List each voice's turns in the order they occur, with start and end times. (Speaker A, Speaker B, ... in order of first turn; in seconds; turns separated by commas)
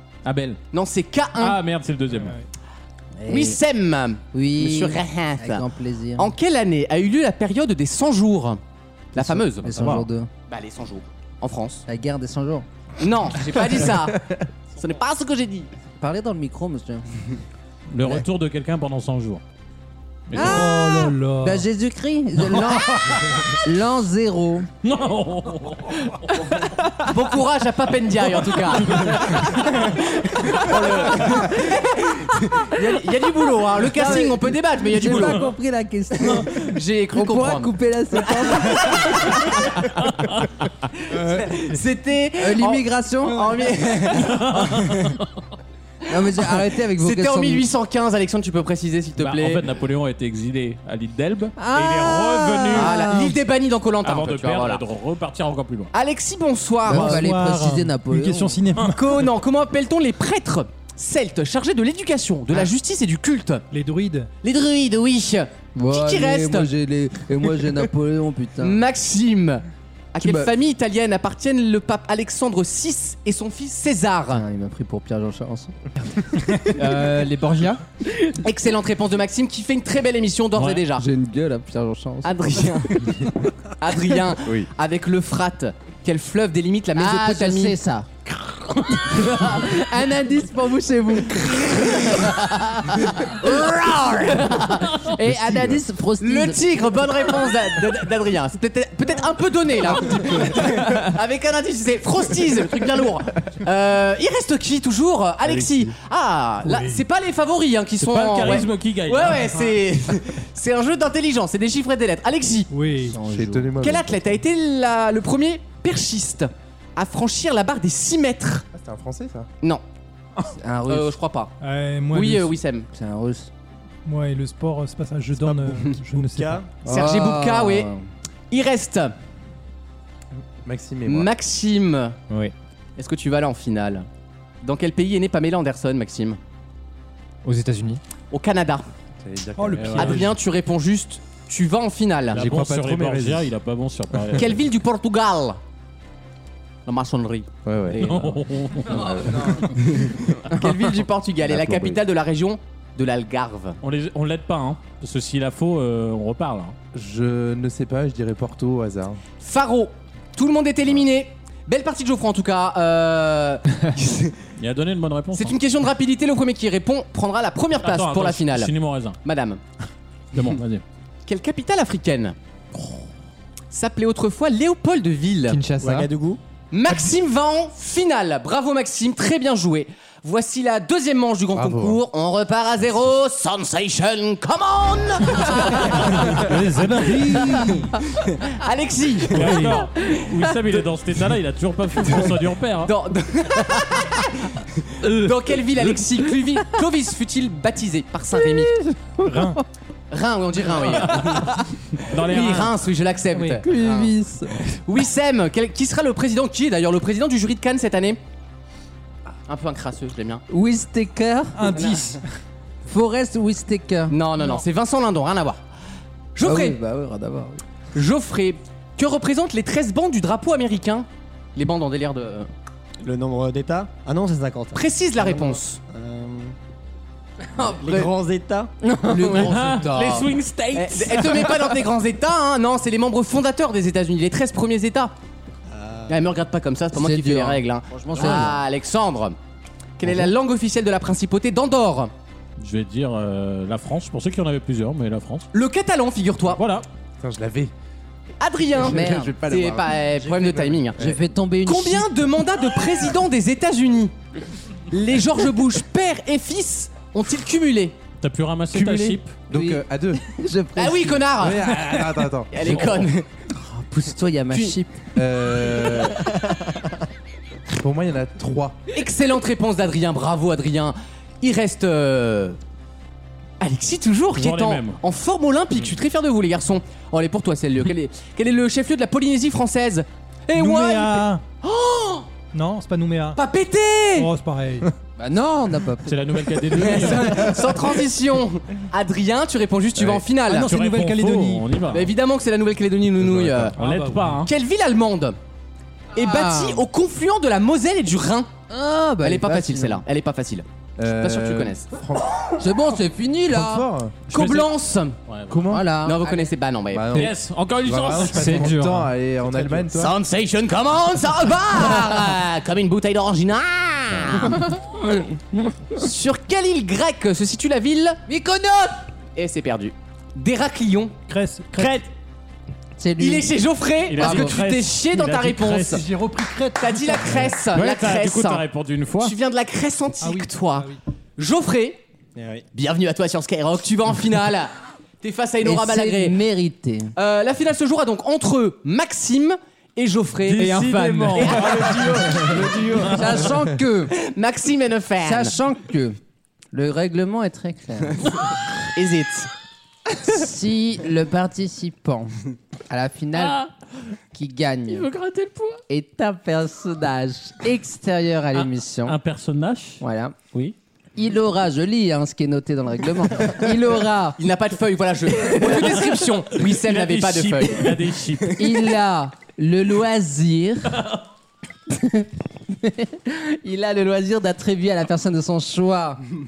Speaker A: 0.2-0.6, Speaker B: 0.7-1.6, Speaker A: 1.4-2.4, Speaker C: 3.2-3.6, Speaker B: 3.3-5.6, Speaker C: 4.3-6.3, Speaker B: 6.2-8.6, Speaker B: 9.1-11.8, Speaker C: 9.1-10.3, Speaker C: 11.9-12.7, Speaker B: 13.0-14.2, Speaker B: 14.8-15.7, Speaker C: 16.0-17.0, Speaker A: 17.9-19.4, Speaker A: 20.3-20.7, Speaker C: 20.3-24.7, Speaker D: 20.4-21.6, Speaker A: 24.8-26.5, Speaker B: 27.0-35.5, Speaker A: 28.7-29.7, Speaker C: 33.8-39.6, Speaker A: 35.1-35.5, Speaker B: 36.3-37.7, Speaker B: 38.3-39.7, Speaker A: 40.0-40.5, Speaker B: 41.1-45.2, Speaker C: 42.4-43.7, Speaker A: 44.1-45.2, Speaker C: 46.1-47.6, Speaker B: 47.0-49.6, Speaker A: 49.2-53.1, Speaker C: 51.6-53.4, Speaker B: 52.7-54.8, Speaker A: 54.0-55.9, Speaker B: 55.9-57.2, Speaker C: 56.9-58.6, Speaker D: 56.9-59.1, Speaker B: 58.8-63.6, Speaker D: 63.7-64.3, Speaker B: 64.4-66.7, Speaker C: 65.7-68.8, Speaker B: 68.6-74.4, Speaker C: 70.2-70.5, Speaker C: 74.3-75.7, Speaker E: 76.7-77.8, Speaker B: 78.4-81.0, Speaker A: 80.5-80.8, Speaker C: 80.9-83.1, Speaker B: 82.2-87.8, Speaker C: 86.9-88.1, Speaker C: 89.0-97.5, Speaker B: 93.2-94.1, Speaker F: 95.3-95.8, Speaker B: 96.2-112.7, Speaker F: 105.5-105.9, Speaker D: 106.6-107.0, Speaker A: 108.0-109.5, Speaker D: 112.7-113.2, Speaker C: 113.1-113.8, Speaker F: 113.2-114.3, Speaker B: 113.8-118.6, Speaker F: 118.7-119.5, Speaker C: 120.5-121.1, Speaker B: 120.9-121.5, Speaker D: 121.6-122.6, Speaker B: 122.1-122.9, Speaker C: 122.9-123.5, Speaker D: 124.0-126.6, Speaker G: 125.3-126.7, Speaker B: 126.8-127.9, Speaker C: 126.8-128.1, Speaker B: 128.5-129.1, Speaker F: 130.6-131.3, Speaker B: 131.1-132.1, Speaker B: 133.0-134.1, Speaker B: 134.6-136.4, Speaker E: 137.4-138.0, Speaker B: 138.3-138.8, Speaker F: 139.2-140.2, Speaker D: 139.6-140.3, Speaker A: 139.8-140.3, Speaker B: 139.9-142.4, Speaker F: 142.3-143.5, Speaker A: 142.3-144.6, Speaker B: 144.3-145.6, Speaker B: 146.8-148.3, Speaker F: 147.6-148.3, Speaker A: 148.0-149.5, Speaker B: 148.9-153.8, Speaker F: 148.9-149.7, Speaker F: 151.4-152.0, Speaker A: 153.8-156.8, Speaker F: 156.9-159.2, Speaker B: 159.4-164.4, Speaker A: 164.6-165.6, Speaker B: 165.3-168.7, Speaker A: 167.8-169.2, Speaker B: 169.2-169.6, Speaker A: 170.3-170.8, Speaker B: 171.2-172.3, Speaker A: 172.7-173.0, Speaker B: 173.7-175.6, Speaker E: 175.5-176.1, Speaker G: 175.8-176.4, Speaker B: 176.7-186.5, Speaker F: 181.5-182.0, Speaker D: 186.2-188.0, Speaker B: 187.6-190.2, Speaker A: 189.3-192.9, Speaker D: 189.3-189.8, Speaker B: 192.8-198.8, Speaker A: 195.0-196.0, Speaker C: 198.5-199.6, Speaker D: 199.2-199.6, Speaker B: 200.1-201.5, Speaker A: 202.0-202.7, Speaker B: 202.0-204.1, Speaker D: 203.3-203.6, Speaker C: 203.6-204.6, Speaker B: 204.8-208.2, Speaker B: 209.5-210.4, Speaker C: 210.5-211.8, Speaker D: 211.5-212.2, Speaker C: 212.9-214.2, Speaker B: 214.1-215.6, Speaker B: 216.3-216.8, Speaker C: 216.4-217.6, Speaker B: 217.9-222.5, Speaker G: 223.0-226.5, Speaker B: 224.7-225.8, Speaker B: 227.6-228.1, Speaker G: 227.6-228.7, Speaker C: 228.8-229.5, Speaker B: 229.0-235.1, Speaker A: 229.3-231.7, Speaker G: 235.7-236.2, Speaker B: 236.1-239.3, Speaker C: 236.9-238.6, Speaker A: 238.2-238.5, Speaker B: 240.0-242.1, Speaker A: 242.6-245.5, Speaker B: 245.5-246.6, Speaker A: 246.5-246.9, Speaker F: 247.2-247.7, Speaker B: 248.4-251.0, Speaker F: 248.8-251.2, Speaker C: 248.8-249.4, Speaker C: 250.9-252.1, Speaker B: 251.6-254.1, Speaker B: 254.9-257.9, Speaker A: 258.2-259.3, Speaker F: 258.8-260.3, Speaker C: 259.5-261.3, Speaker B: 260.8-261.8, Speaker F: 261.4-262.9, Speaker B: 262.5-263.3, Speaker A: 262.7-263.0, Speaker C: 263.5-265.1, Speaker B: 264.5-264.8, Speaker F: 265.1-266.3, Speaker F: 267.7-268.8, Speaker B: 268.9-272.6, Speaker B: 273.6-282.3, Speaker A: 274.3-275.0, Speaker D: 280.5-281.4, Speaker D: 282.5-283.4, Speaker B: 283.3-284.3, Speaker D: 284.1-284.9, Speaker C: 285.2-286.2, Speaker A: 286.0-287.7, Speaker B: 286.7-290.7, Speaker A: 290.0-292.1, Speaker D: 290.4-291.7, Speaker B: 291.9-293.7, Speaker F: 293.2-293.7, Speaker A: 293.7-294.5, Speaker D: 293.8-294.5, Speaker B: 294.4-295.4, Speaker B: 296.1-298.5, Speaker C: 296.1-296.9, Speaker C: 298.7-300.0, Speaker B: 299.2-301.9, Speaker F: 301.0-302.5, Speaker C: 302.6-303.9, Speaker F: 303.5-304.2, Speaker A: 304.3-304.7, Speaker B: 304.3-305.1, Speaker A: 305.3-305.6, Speaker F: 305.5-305.9, Speaker C: 305.7-306.5, Speaker B: 306.0-307.2, Speaker F: 306.9-310.2, Speaker A: 307.1-308.7, Speaker E: 308.2-309.1, Speaker B: 309.9-315.2, Speaker B: 315.9-318.2, Speaker C: 318.3-319.0, Speaker B: 319.4-321.1, Speaker D: 321.3-322.1, Speaker C: 323.0-323.5, Speaker B: 323.2-326.0, Speaker A: 324.1-326.0, Speaker C: 324.2-324.6, Speaker D: 325.9-327.5, Speaker B: 326.8-328.6, Speaker A: 327.3-329.3, Speaker B: 329.2-332.0, Speaker D: 330.2-331.0, Speaker G: 332.4-332.6, Speaker B: 332.7-336.4, Speaker C: 335.6-337.1, Speaker B: 337.1-340.7, Speaker A: 340.5-343.4, Speaker E: 340.6-341.8, Speaker B: 341.4-343.1, Speaker G: 341.8-343.1, Speaker F: 342.5-343.2, Speaker C: 343.0-344.1, Speaker B: 344.1-345.6, Speaker C: 345.2-346.2, Speaker C: 346.7-348.3, Speaker B: 348.9-349.5, Speaker C: 350.1-352.3, Speaker C: 352.9-353.6, Speaker A: 353.4-353.7, Speaker C: 354.3-355.1, Speaker A: 354.9-355.8, Speaker C: 355.9-359.2, Speaker A: 358.5-360.0, Speaker C: 360.0-360.4, Speaker C: 361.1-364.4, Speaker B: 364.4-367.9, Speaker A: 365.6-368.8, Speaker C: 368.5-371.0, Speaker C: 371.9-376.2